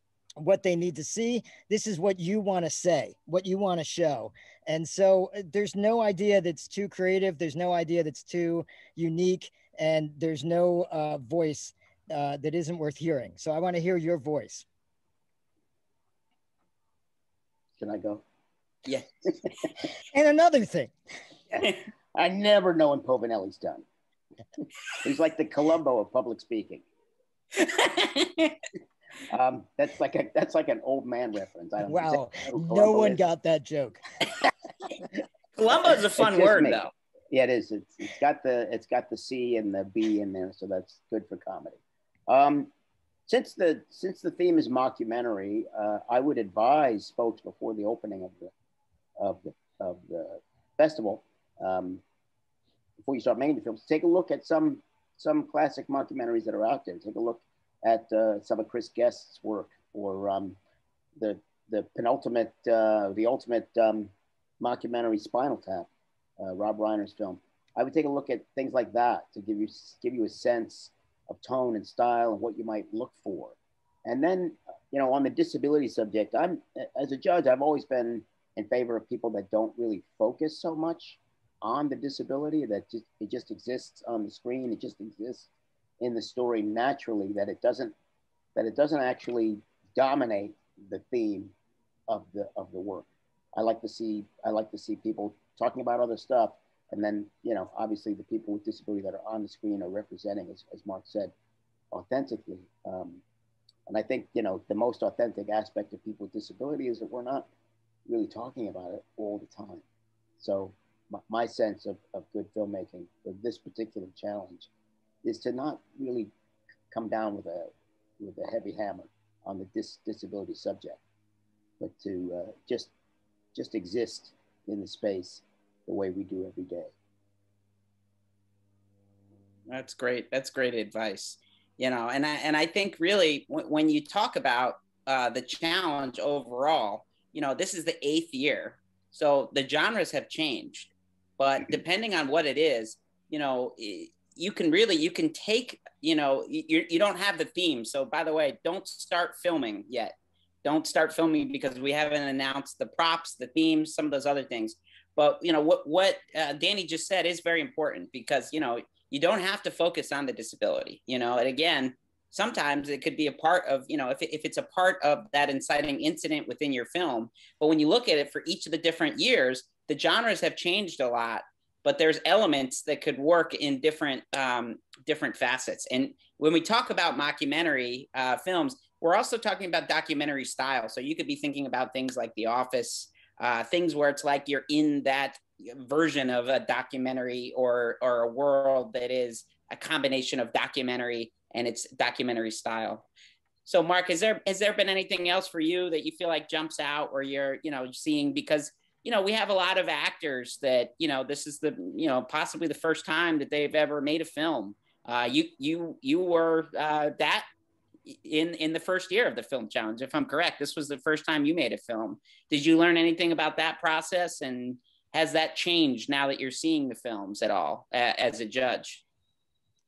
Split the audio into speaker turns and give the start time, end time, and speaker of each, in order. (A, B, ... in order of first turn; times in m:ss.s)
0:00.4-0:14.6 A
0:17.8-0:18.2 B
0:20.1-0:20.9 A
0:21.5-0:23.8 B
0:25.0-0:26.8 B
0:27.6-0:28.5 C
0:29.3-0:33.2 B
0:31.8-0:34.0 A
0:35.6-0:36.9 C
0:36.2-0:42.7 B
0:43.3-0:48.5 B
0:49.2-0:52.0 B
0:53.0-1:00.6 B
1:01.2-1:05.9 B
1:06.4-1:25.5 B
1:26.0-1:27.9 B
1:28.6-1:31.5 B
1:32.1-1:41.3 B
1:41.9-1:43.2 B
1:43.9-1:47.5 B
1:48.1-1:49.8 B
1:50.4-1:54.7 B
1:55.2-1:56.3 B
1:56.9-2:01.0 B
2:01.8-2:02.9 B
2:03.5-2:06.9 B
2:09.7-3:13.1 C
3:13.6-3:27.5 C
3:28.1-3:39.0 C